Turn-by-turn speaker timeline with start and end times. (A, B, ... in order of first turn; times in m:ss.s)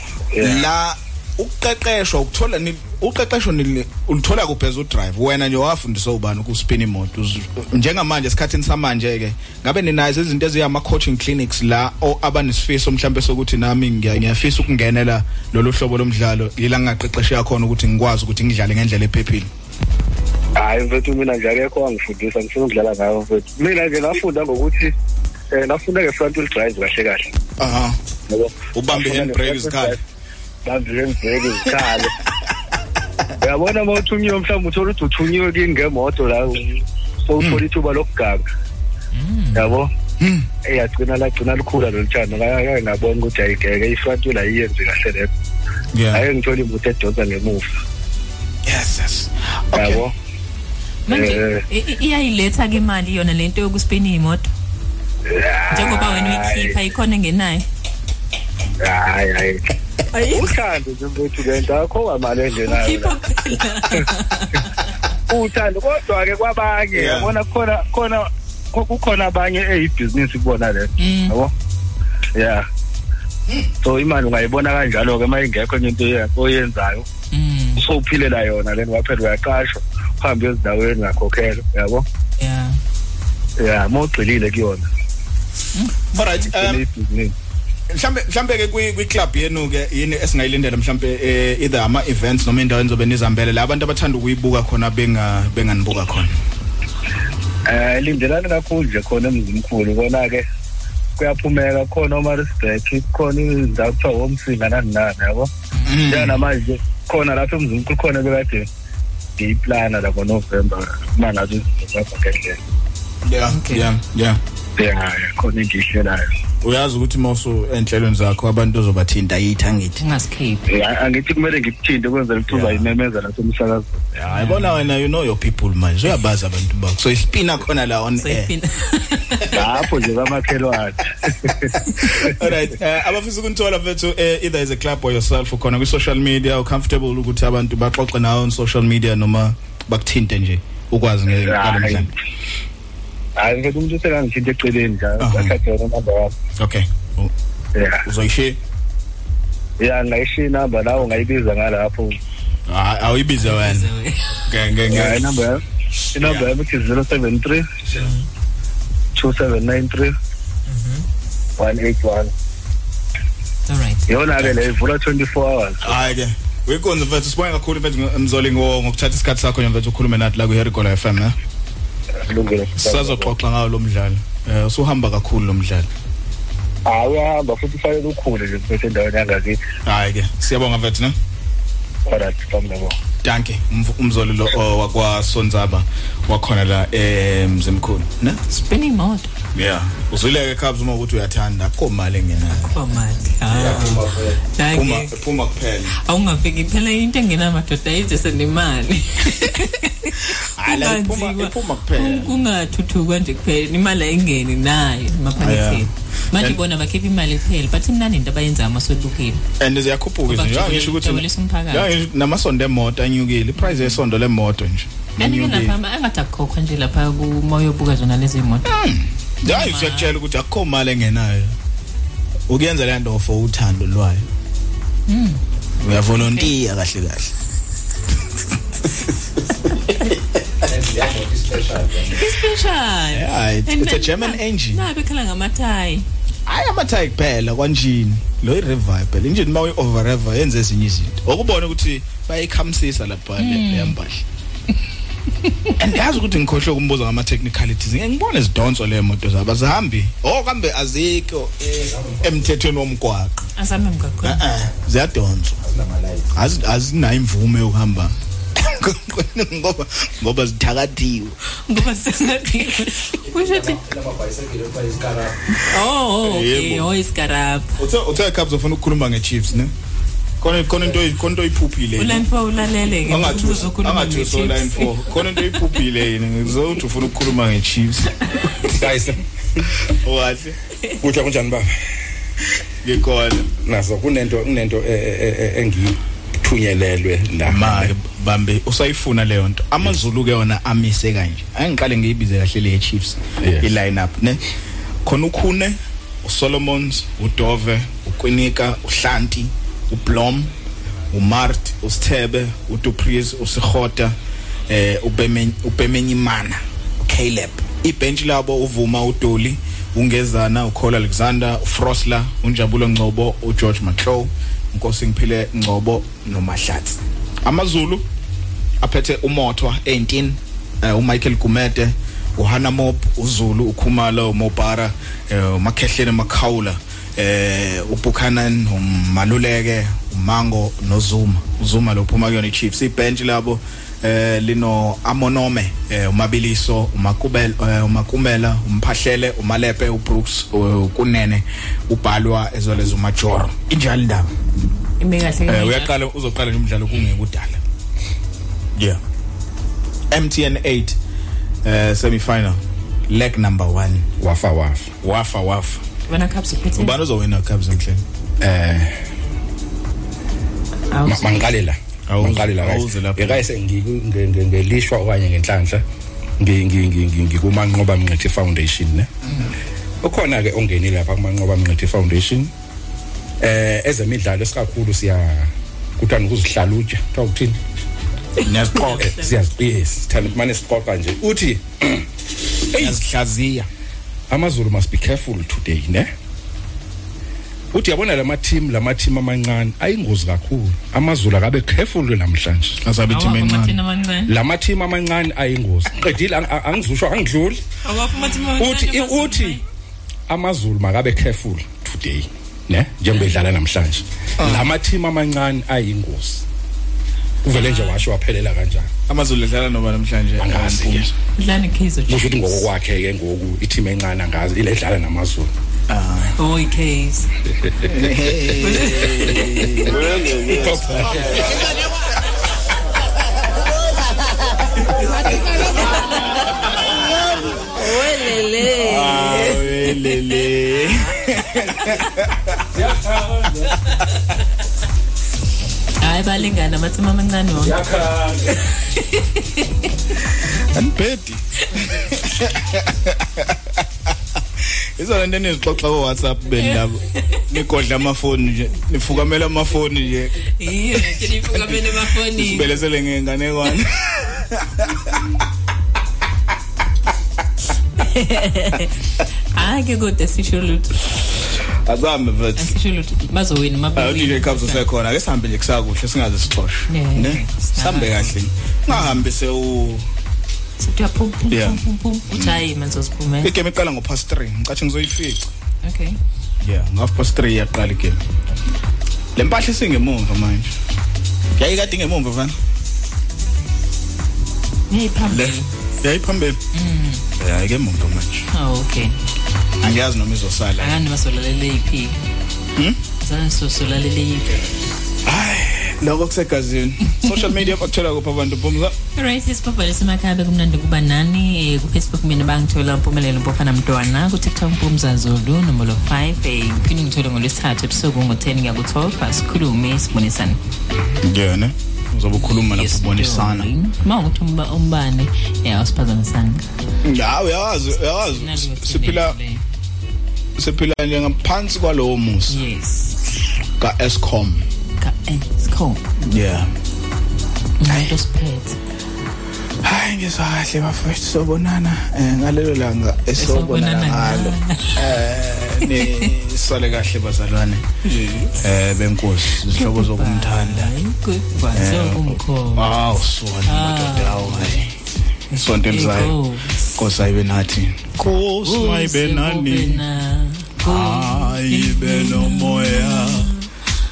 0:00.3-0:00.6 A
0:00.4-0:19.5 B
0:20.6-0:24.9 A
0:25.5-0:27.3 A
0:27.6-0:28.0 B
0:28.3-0:30.0 A
0:28.7-0:30.0 B
0:30.6-0:32.1 A
0:33.4-0:38.4 A
0:39.1-0:39.7 C
0:39.5-0:39.9 A
0:40.2-0:40.5 B
0:40.6-0:45.3 A
0:45.9-0:46.2 B
0:46.1-0:47.7 A
0:48.6-0:50.0 B
0:49.7-0:50.1 A
0:51.1-0:54.5 C
0:51.1-0:51.6 A
0:55.3-0:56.8 A
0:55.7-0:57.6 C
0:58.8-0:59.6 A
1:00.1-1:00.5 C
1:00.3-1:03.2 A
1:02.6-1:04.7 C
1:05.3-1:11.5 A
1:06.9-1:07.3 B
1:11.0-1:11.3 C
1:12.4-1:12.6 A
1:13.8-1:17.0 A
1:17.3-1:17.8 C
1:17.8-1:22.0 A
1:22.4-1:22.8 C
1:23.6-1:24.9 A
1:25.7-1:26.4 C
1:26.1-1:26.8 B
1:26.5-1:27.3 A
1:27.9-1:36.4 B
1:37.7-1:40.4 A
1:41.2-1:45.5 A
1:45.8-1:46.4 B
1:46.0-1:48.6 A
1:49.4-1:52.6 A
1:53.2-1:54.4 B
1:53.5-1:53.9 C
1:54.8-1:56.2 A
1:56.6-2:00.0 B
2:00.0-2:00.6 C
2:00.7-2:04.1 A
2:02.5-2:02.9 B
2:04.2-2:08.5 B
2:04.3-2:04.8 C
2:08.2-2:09.6 C
2:09.5-2:11.7 A
2:12.2-2:22.1 B
2:21.4-2:22.1 A
2:23.4-2:26.3 A
2:25.2-2:25.5 B
2:26.6-2:27.3 B
2:27.8-2:28.0 A
2:28.0-2:28.6 B
2:29.8-2:32.2 A
2:32.7-2:33.9 B
2:33.4-2:34.4 C
2:34.5-2:35.2 B
2:34.9-2:35.6 A
2:36.1-2:37.7 A
2:36.2-2:36.5 B
2:37.9-2:38.2 C
2:39.2-2:40.1 A
2:40.7-2:41.0 C
2:41.6-2:42.3 A
2:43.7-2:44.1 C
2:44.1-2:46.0 A
2:44.4-2:44.7 B
2:45.8-2:51.4 B
2:52.2-2:53.3 A
2:52.8-2:55.9 B
2:56.9-2:59.6 A
2:59.8-3:01.2 B
3:02.1-3:03.0 A
3:03.2-3:08.4 B
3:08.5-3:09.3 C
3:09.5-3:12.8 B
3:12.5-3:15.1 C
3:14.7-3:15.9 B
3:16.0-3:29.4 C
3:20.6-3:22.3 B
3:25.4-3:26.6 B
3:29.6-3:35.7 B
3:30.2-3:31.9 C
3:33.6-3:34.0 C
3:35.2-3:38.8 C
3:38.6-3:41.5 B
3:39.4-3:40.1 C
3:42.5-3:44.2 B
3:45.1-3:45.4 C
3:45.8-3:47.3 B
3:46.2-3:46.5 C
3:52.0-3:56.0 C
3:53.1-3:54.8 B
3:56.4-4:04.2 B
4:03.4-4:03.9 C
4:05.8-4:13.3 B
4:11.8-4:12.4 D
4:13.6-4:14.4 C
4:14.2-4:15.6 B
4:15.8-4:16.2 D
4:16.3-4:21.3 B
4:21.7-4:23.8 C
4:25.5-4:27.7 C
4:26.2-4:26.9 B
4:27.8-4:29.7 B
4:30.4-4:32.3 B
4:32.0-4:35.2 C
4:33.1-4:38.1 B
4:38.8-4:39.2 D
4:39.9-4:40.6 B
4:41.0-4:41.7 D
4:42.8-4:43.5 B
4:43.6-4:47.9 D
4:47.4-4:54.4 B
4:53.4-4:53.7 D
4:55.0-5:00.5 B
5:01.1-5:04.1 B
5:04.7-5:18.0 B
5:18.8-5:44.3 B
5:45.0-5:46.0 C
5:45.5-5:47.6 B
5:50.1-5:51.0 B
5:51.6-5:54.1 B
5:54.2-5:55.8 D
5:56.1-5:57.0 C
5:56.8-5:58.0 B
5:58.4-5:59.0 D
6:00.9-6:01.5 C
6:01.0-6:05.8 D
6:02.1-6:03.4 B
6:06.4-6:09.1 D
6:10.0-6:12.5 D
6:13.4-6:17.6 D
6:18.4-6:19.4 C
6:18.4-6:19.1 B
6:19.0-6:22.0 D
6:22.7-6:23.0 D
6:22.8-6:23.7 B
6:24.3-6:26.1 D
6:27.7-6:32.8 D
6:32.8-6:33.8 B
6:33.1-6:34.3 C
6:34.3-6:37.6 D
6:37.8-6:39.6 C
6:38.4-6:39.6 D
6:40.3-6:46.4 D
6:43.1-6:43.4 C
6:44.4-6:44.7 B
6:47.4-6:48.9 D
6:47.5-6:48.1 C
6:49.1-6:51.1 B
6:50.4-6:51.1 D
6:51.4-6:52.7 C
6:52.1-6:55.5 D
6:55.9-6:56.4 B
6:56.4-6:57.3 C
6:57.9-7:01.6 B
6:58.6-7:00.2 C
7:00.4-7:01.6 D
7:05.7-7:06.2 C
7:07.7-7:10.1 C
7:08.8-7:12.4 B
7:12.7-7:13.6 D
7:16.0-7:18.0 C
7:17.6-7:18.5 D
7:19.0-7:19.6 C
7:20.7-7:21.4 B
7:22.0-7:23.5 B
7:25.0-7:30.4 B
7:30.6-7:32.8 C
7:31.0-7:35.1 B
7:38.0-7:38.9 C
7:39.5-7:41.2 C
7:41.8-7:42.7 B
7:42.6-7:44.8 C
7:43.9-7:50.0 B
7:46.9-7:48.3 C
7:48.9-7:49.2 C
7:50.8-7:53.5 C
7:51.5-7:51.8 B
7:52.3-7:52.6 B
7:53.4-7:55.5 B
7:55.8-7:56.2 C
7:56.6-7:58.2 B
7:59.3-8:00.7 B
8:01.6-8:02.6 B
8:04.9-8:05.6 C
8:05.3-8:06.6 B
8:06.7-8:07.2 C
8:07.4-8:08.4 B
8:08.5-8:09.1 C
8:09.8-8:11.0 B
8:10.8-8:12.2 C
8:13.2-8:14.6 C
8:15.2-8:18.9 B
8:19.2-8:30.6 C
8:31.2-8:33.7 B
8:32.3-8:36.7 C
8:37.0-8:39.4 B
8:38.1-8:39.6 C
8:40.6-8:42.6 B
8:42.5-8:43.2 C
8:43.8-8:44.6 B
8:45.0-8:46.0 C
8:46.2-8:46.7 B
8:47.8-8:48.8 C
8:47.9-8:48.2 B
8:49.8-8:57.8 B
8:53.4-8:55.0 C
8:55.9-8:56.3 C
8:58.0-8:58.7 C
8:58.6-9:00.9 B
8:59.7-9:03.0 C
9:01.7-9:04.9 B
9:03.6-9:04.8 C
9:05.5-9:06.8 C
9:05.5-9:06.3 B
9:07.0-9:10.0 B
9:08.6-9:13.6 C
9:10.8-9:13.5 B